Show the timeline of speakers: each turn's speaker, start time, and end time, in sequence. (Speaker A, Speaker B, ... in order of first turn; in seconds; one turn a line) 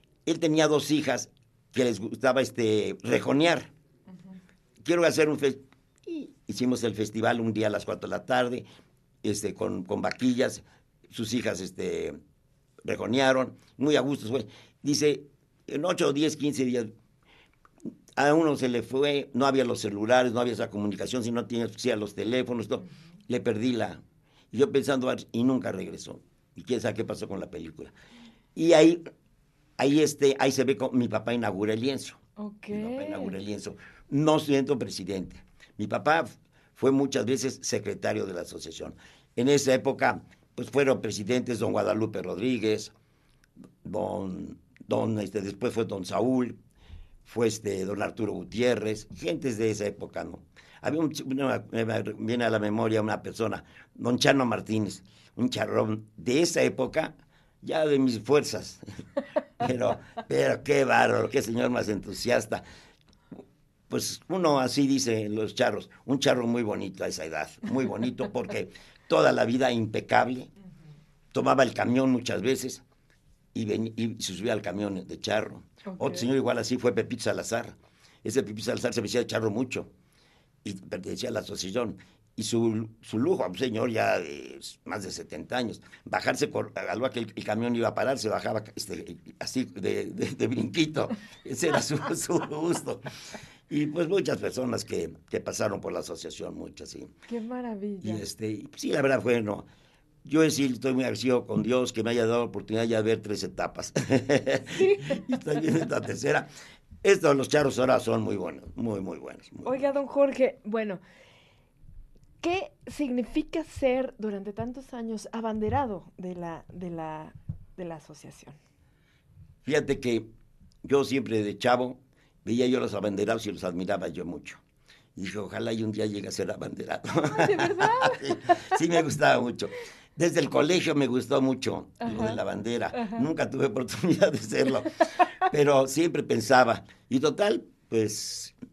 Speaker A: 0.2-3.7
Speaker A: 4.8-8.6
Speaker A: 9.2-12.2
Speaker A: 12.8-16.9
Speaker A: 18.1-24.0
Speaker A: 24.5-27.9
Speaker A: 28.5-29.0
Speaker A: 29.8-32.2
Speaker B: 32.4-33.3
Speaker A: 32.7-42.9
Speaker A: 43.8-46.6
Speaker A: 47.2-58.8
Speaker A: 59.6-62.6
Speaker A: 63.9-70.5
Speaker A: 71.3-72.8
Speaker A: 73.5-79.9
Speaker B: 75.8-76.3
Speaker A: 80.6-93.1
Speaker A: 93.7-97.1
Speaker B: 97.3-98.2
Speaker A: 98.0-99.7
Speaker A: 100.2-106.5
Speaker B: 104.7-105.2
Speaker A: 107.0-109.8
Speaker B: 109.6-111.0
Speaker B: 112.4-118.6
Speaker A: 119.6-120.3
Speaker A: 120.8-124.6
Speaker A: 125.2-138.5
Speaker B: 127.3-128.8
Speaker B: 132.0-132.4
Speaker B: 132.9-133.2